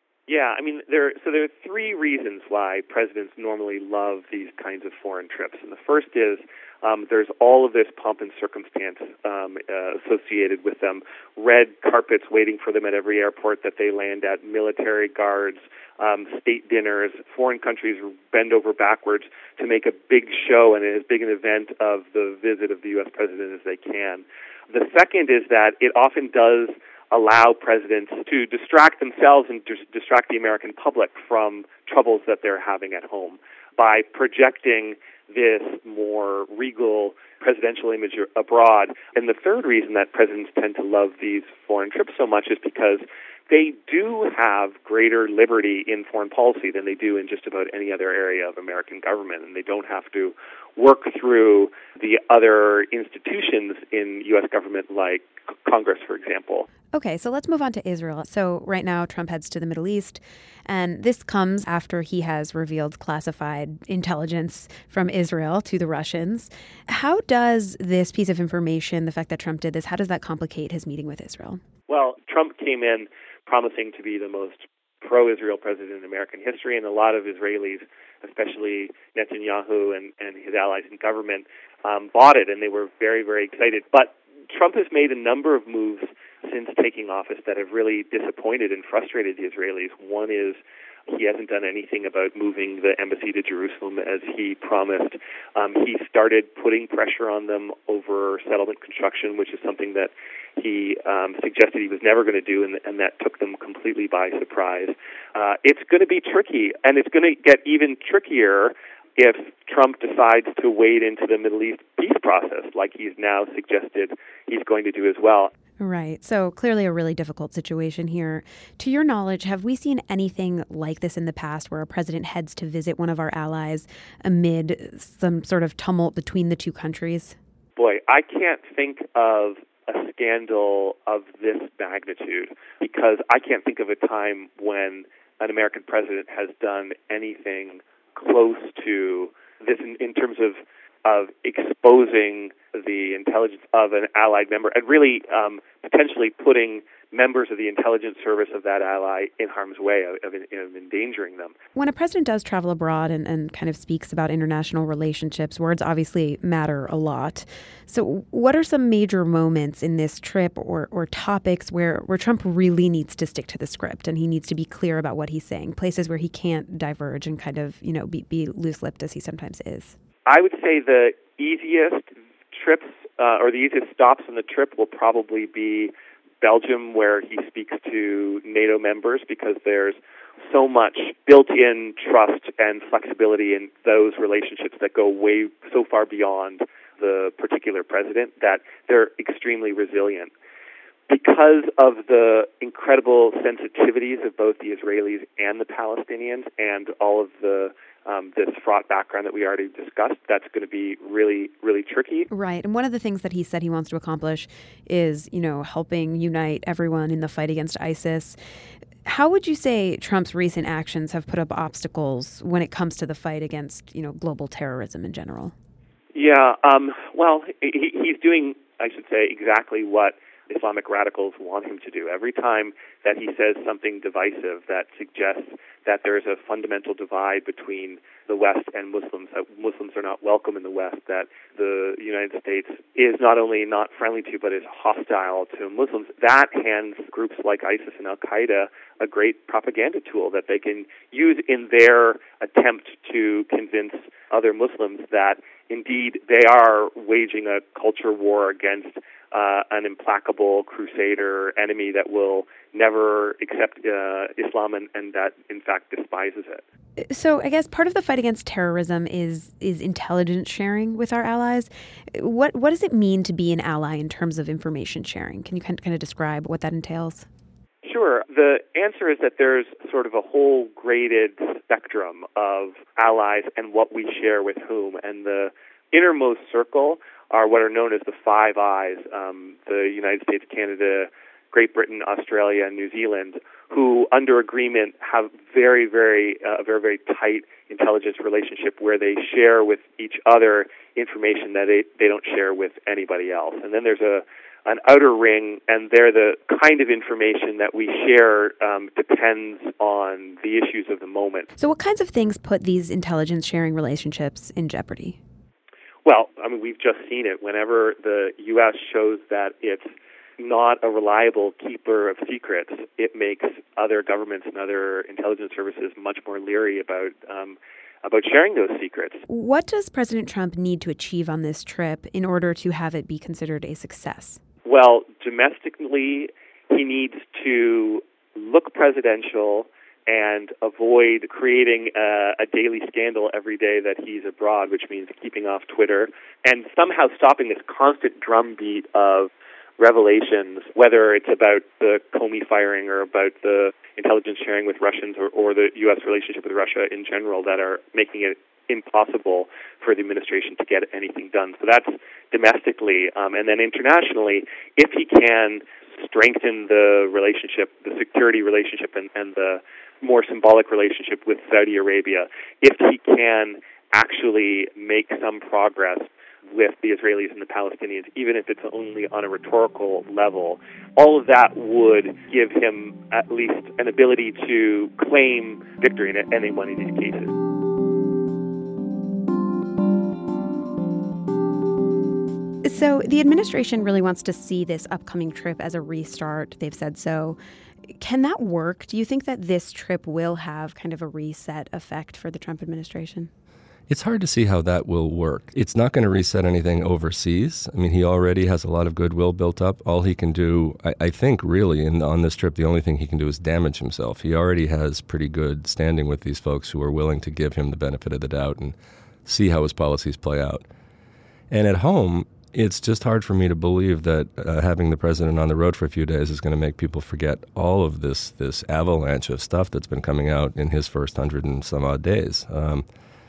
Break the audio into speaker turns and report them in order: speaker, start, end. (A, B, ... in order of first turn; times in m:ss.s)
0:00.3-0:56.7 A
0:56.9-1:11.6 B
1:11.9-1:55.5 A
1:55.8-2:07.4 B
2:07.8-2:31.5 A
2:31.8-2:50.0 B
2:50.3-3:00.0 A
3:00.5-3:10.3 A
3:11.1-3:22.3 A
3:22.3-3:28.4 B
3:29.0-3:35.5 B
3:36.2-4:16.6 A
4:17.0-4:27.3 B
4:27.8-5:01.5 A
5:01.6-5:05.2 B
5:06.0-5:09.9 A
5:10.4-5:19.2 A
5:19.3-5:24.4 B
5:24.7-6:17.4 A
6:22.6-6:27.4 B
6:28.0-6:33.3 B
6:33.9-6:50.7 C
6:51.5-7:02.8 C